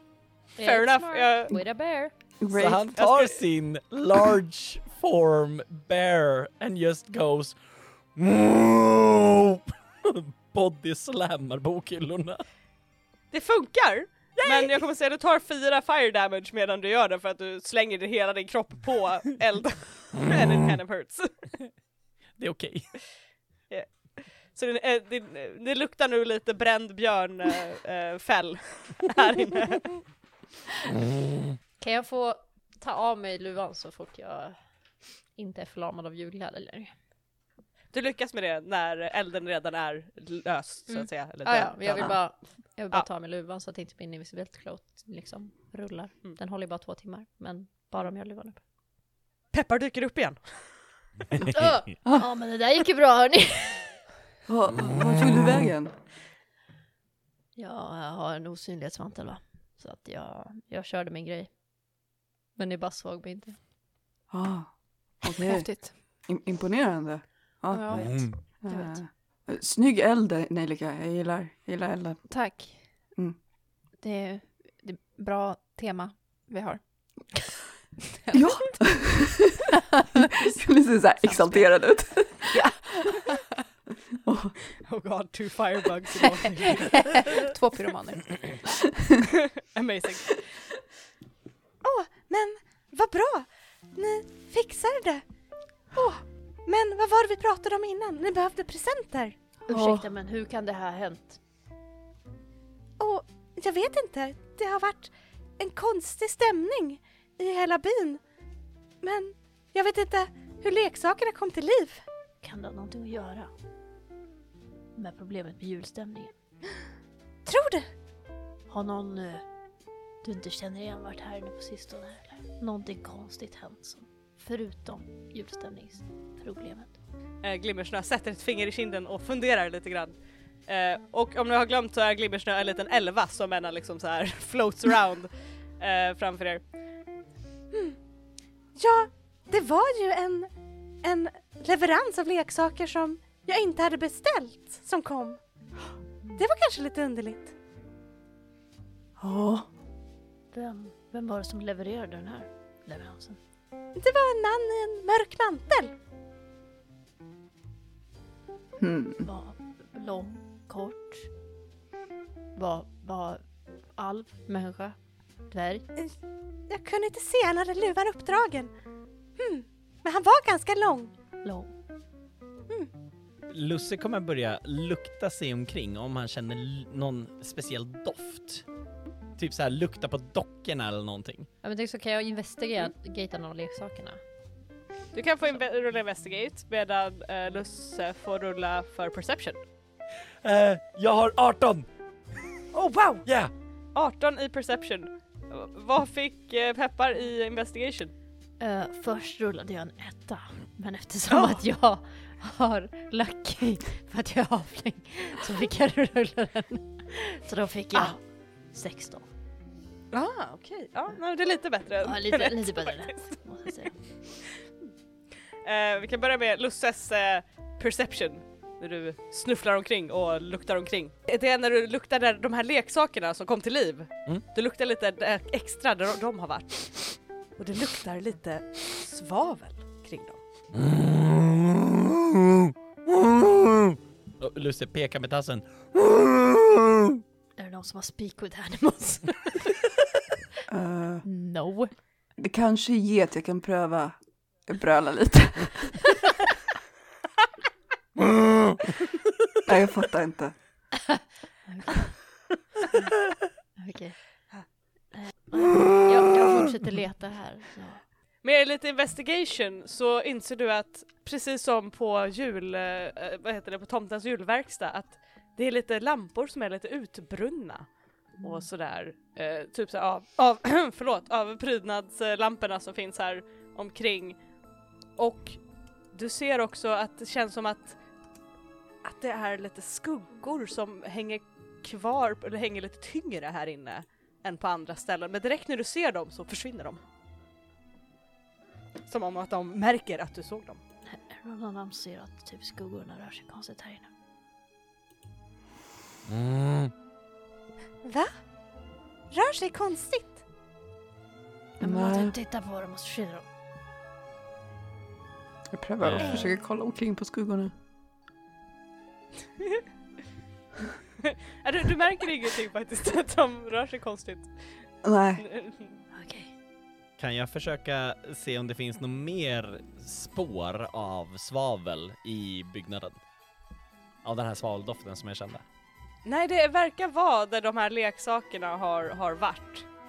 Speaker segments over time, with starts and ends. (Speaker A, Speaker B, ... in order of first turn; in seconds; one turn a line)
Speaker A: 0.6-2.1
Speaker B: 0.6-1.6
Speaker C: 2.4-2.9
Speaker D: 2.5-7.6
Speaker B: 2.9-3.4
Speaker D: 8.1-12.4
Speaker B: 13.3-21.3
Speaker D: 14.4-14.7
Speaker D: 22.4-22.9
Speaker B: 23.7-30.0
Speaker A: 31.8-34.5
Speaker A: 35.4-36.9
Speaker B: 37.9-42.2
Speaker A: 40.9-48.6
Speaker B: 49.5-50.7
Speaker A: 51.5-53.9
Speaker C: 54.5-55.9
Speaker A: 57.5-61.5
Speaker A: 62.5-63.5
Speaker C: 64.3-72.2
Speaker E: 65.3-66.0
Speaker E: 67.7-68.3
Speaker A: 67.9-69.0
Speaker D: 67.9-68.3
Speaker E: 72.2-73.1
Speaker E: 73.9-77.4
Speaker E: 78.2-78.8
Speaker C: 78.3-79.7
Speaker E: 79.8-80.2
Speaker C: 80.4-82.7
Speaker E: 81.2-81.6
Speaker E: 82.5-83.5
Speaker C: 84.2-84.5
Speaker B: 84.8-87.4
Speaker E: 86.6-88.6
Speaker B: 89.4-90.4
Speaker F: 91.8-95.2
Speaker F: 96.0-99.3
Speaker A: 99.7-101.4
Speaker C: 99.7-100.0
Speaker F: 103.0-105.1
Speaker F: 105.6-108.2
Speaker F: 109.0-111.9
Speaker A: 112.4-113.5
Speaker A: 115.0-116.3
Speaker F: 117.5-117.8
Speaker A: 118.7-119.4
Speaker A: 120.2-127.0
Speaker B: 127.4-130.1
Speaker B: 130.7-136.6
Speaker F: 138.8-140.4
Speaker F: 141.1-145.3
Speaker F: 146.4-147.4
Speaker C: 149.2-149.7
Speaker A: 150.5-153.4
Speaker F: 154.0-155.8
Speaker C: 158.8-159.2
Speaker A: 159.2-161.3
Speaker A: 162.5-163.4
Speaker A: 163.9-164.9
Speaker A: 165.5-165.8
Speaker F: 166.8-168.6
Speaker F: 170.3-170.9
Speaker A: 171.4-171.7
Speaker D: 173.5-178.6
Speaker D: 179.4-181.5
Speaker A: 181.6-184.2
Speaker B: 185.1-189.6
Speaker D: 190.4-191.9
Speaker B: 192.7-193.2
Speaker D: 193.2-193.5
Speaker B: 193.9-198.1
Speaker A: 198.6-208.2
Speaker B: 201.3-201.6
Speaker A: 208.7-209.3
Speaker B: 210.1-213.2
Speaker A: 212.0-213.9
Speaker B: 215.6-230.4
Speaker D: 230.7-237.2
Speaker A: 237.6-239.7
Speaker C: 240.7-241.2
Speaker E: 241.2-241.9
Speaker C: 242.4-246.0
Speaker C: 249.7-250.5
Speaker A: 251.1-252.1
Speaker A: 253.8-254.2
Speaker A: 255.2-258.0
Speaker B: 258.4-267.9
Speaker B: 268.4-274.4
Speaker B: 275.2-275.6
Speaker B: 276.1-278.0
Speaker B: 279.0-287.0
Speaker B: 289.1-290.8
Speaker A: 291.1-294.1
Speaker D: 296.2-296.9
Speaker B: 299.3-300.3
Speaker A: 301.8-303.5
Speaker C: 301.8-302.3
Speaker C: 305.7-307.7
Speaker D: 306.0-306.4
Speaker B: 311.2-314.5
Speaker C: 315.0-315.4
Speaker B: 315.4-315.9
Speaker A: 316.1-316.5
Speaker D: 317.2-323.2
Speaker D: 324.2-325.6
Speaker B: 326.2-329.9